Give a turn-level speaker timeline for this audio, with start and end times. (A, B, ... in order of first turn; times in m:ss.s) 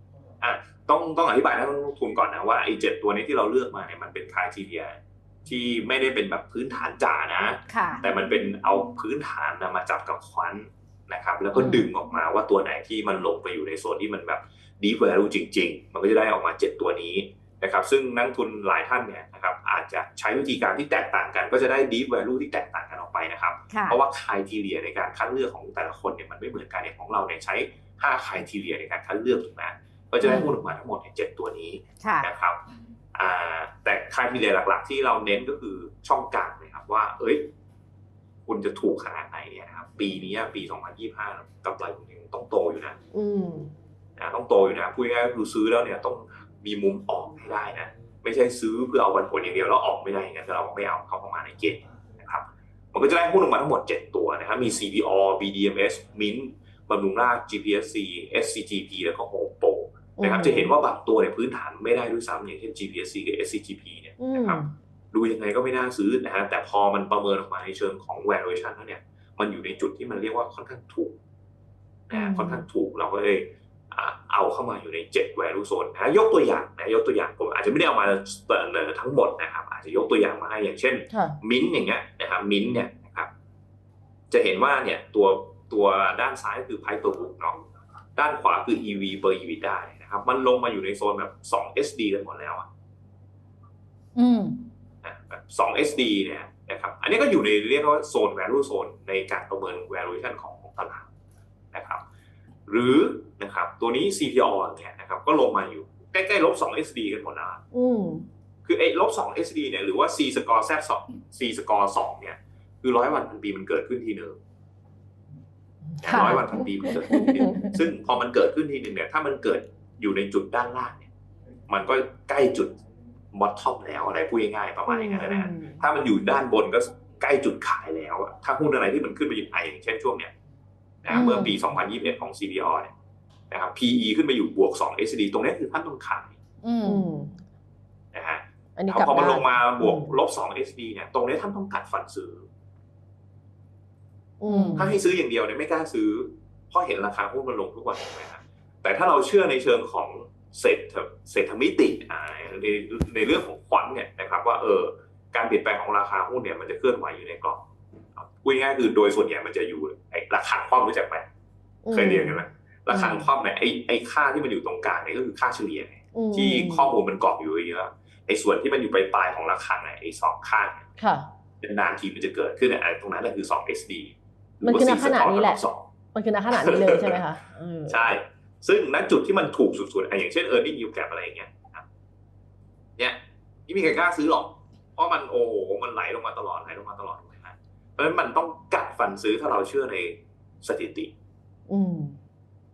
0:00.4-0:32.6 A
0:07.7-0:08.0 B
0:11.5-0:11.9 B
0:23.7-0:24.0 B
0:30.2-0:30.5 B
0:32.0-0:32.3 B
0:33.1-0:37.5 A
0:38.5-0:43.0 A
0:43.1-0:43.7 C
0:44.2-1:11.1 A
1:00.2-1:00.7 C
1:04.2-1:04.7 C
1:12.1-1:23.3 A
1:12.1-1:12.6 C
1:21.1-1:21.4 C
1:24.3-1:27.6 A
1:28.2-1:32.7 A
1:34.2-1:34.6 B
1:35.0-1:41.1 A
1:41.7-1:42.0 A
1:42.7-1:47.6 A
1:47.7-1:48.3 C
1:48.6-1:54.4 A
1:56.0-2:01.1 A
1:56.0-1:57.8 B
1:56.1-1:57.6 C
2:01.7-2:02.8 A
2:03.3-2:10.3 A
2:04.9-2:05.8 C
2:11.0-2:12.9 A
2:11.1-2:11.6 C
2:13.5-2:16.4 A
2:16.6-2:17.0 B
2:16.8-2:17.4 C
2:18.1-2:22.4 A
2:18.8-2:20.1 C
2:24.4-2:25.0 C
2:24.5-2:24.9 B
2:24.8-2:37.6 A
2:38.2-2:41.3 A
2:41.8-2:43.2 C
2:41.9-2:50.9 A
2:46.1-2:46.9 C
2:51.0-2:51.3 C
2:51.6-2:55.8 A
2:54.6-2:55.6 C
2:56.1-2:58.0 C
2:56.5-2:57.2 A
2:57.9-3:01.8 A
3:03.0-3:11.1 A
3:11.7-3:12.2 C